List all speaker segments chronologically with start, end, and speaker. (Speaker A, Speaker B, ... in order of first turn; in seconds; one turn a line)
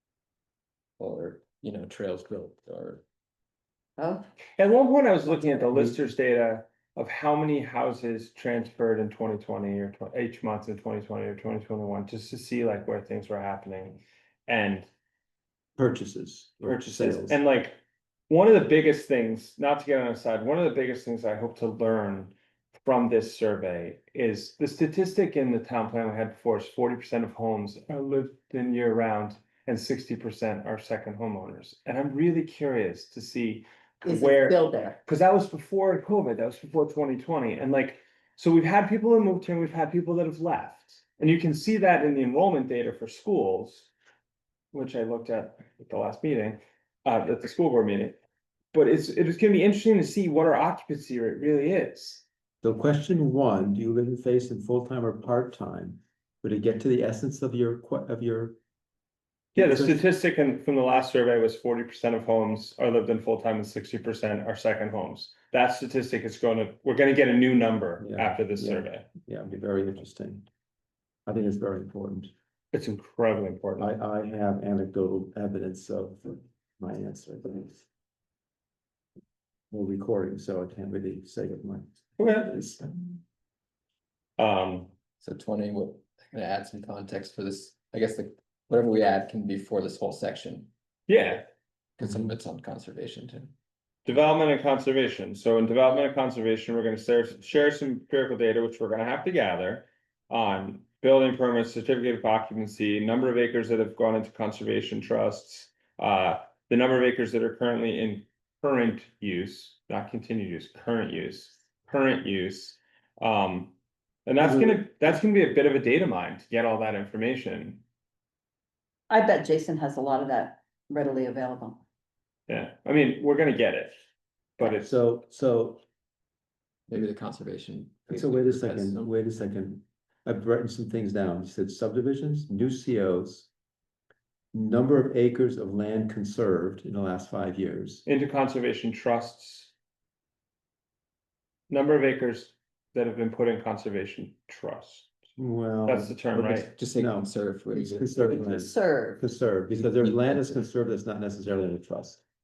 Speaker A: 1.0-3.0
Speaker B: 4.0-4.2
Speaker C: 4.6-14.9
Speaker D: 15.8-17.4
Speaker C: 16.6-17.8
Speaker C: 18.3-43.9
Speaker B: 34.0-35.0
Speaker C: 44.7-48.2
Speaker C: 48.7-52.2
Speaker D: 52.6-58.6
Speaker D: 59.5-60.0
Speaker C: 59.5-69.0
Speaker D: 68.0-70.5
Speaker D: 71.2-72.3
Speaker C: 72.7-73.9
Speaker D: 73.8-77.8
Speaker D: 79.7-83.2
Speaker C: 82.2-82.5
Speaker C: 84.4-84.9
Speaker A: 85.2-90.7
Speaker C: 91.1-91.5
Speaker A: 92.0-93.5
Speaker C: 94.0-113.7
Speaker C: 114.2-117.8
Speaker D: 114.5-114.8
Speaker B: 119.1-121.8
Speaker C: 122.5-124.0
Speaker C: 124.6-124.9
Speaker D: 124.7-125.8
Speaker A: 126.9-129.1
Speaker D: 128.1-133.5
Speaker D: 134.5-138.1
Speaker C: 138.1-139.7
Speaker C: 141.7-145.1
Speaker D: 145.4-146.2
Speaker C: 145.8-146.7
Speaker A: 146.3-148.4
Speaker D: 146.9-152.2
Speaker B: 147.7-149.2
Speaker A: 149.8-150.6